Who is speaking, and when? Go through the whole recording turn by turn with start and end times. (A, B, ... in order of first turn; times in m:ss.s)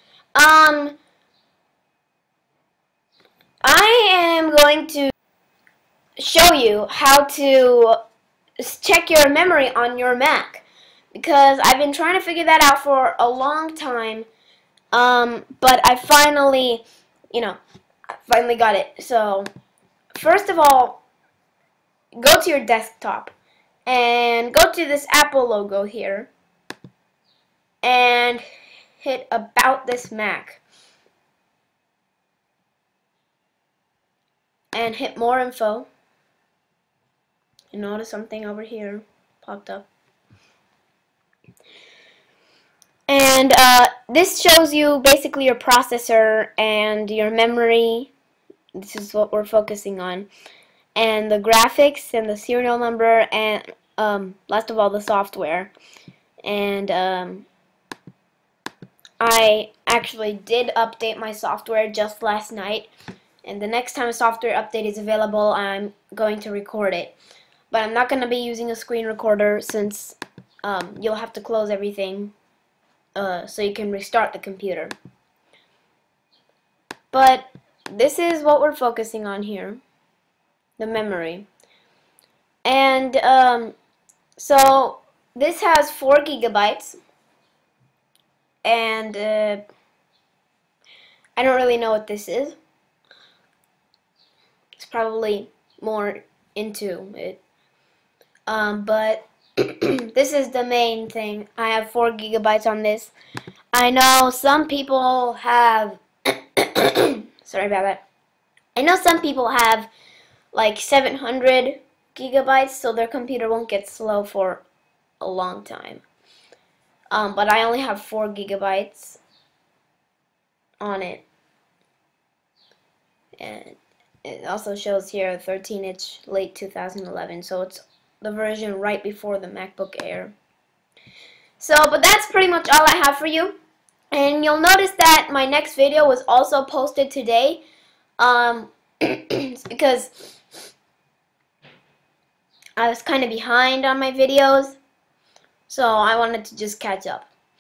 0:00.3-0:01.0 A
0:03.6-0:05.1 A
0:06.2-0:08.0 A
0:08.6-0:14.3 A
0:14.9-0:17.6 A
0:18.1-0:19.5 A
0:20.1-0:21.0 A
0:22.2-0:23.3 A
0:23.8-0:26.3 A
0:27.8-0:28.4 A
0:29.0-0:30.6 A
0:34.7-0:35.9 A
0:37.7-0:39.9 A
0:43.1-0:48.1 A
0:48.7-0:50.3 A
0:51.0-0:55.7 A
0:56.4-0:57.4 A
0:59.2-1:02.9 A
1:03.4-1:07.1 A
1:07.7-1:12.3 A
1:13.2-1:14.9 A
1:17.1-1:19.8 A
1:20.8-1:21.4 A
1:22.6-1:23.7 A
1:24.4-1:27.0 A
1:28.6-1:29.6 A
1:31.4-1:32.6 A
1:34.8-1:37.4 A
1:38.5-1:43.1 A
1:43.7-1:48.0 A
1:48.8-1:49.9 A
1:50.5-1:54.6 A
1:55.2-1:56.0 A
1:57.1-1:59.2 A
2:00.8-2:01.2 A
2:03.4-2:10.3 A
2:11.6-2:13.5 A
2:14.1-2:17.6 A
2:18.2-2:20.4 A
2:22.8-2:24.8 A
2:25.7-2:27.3 A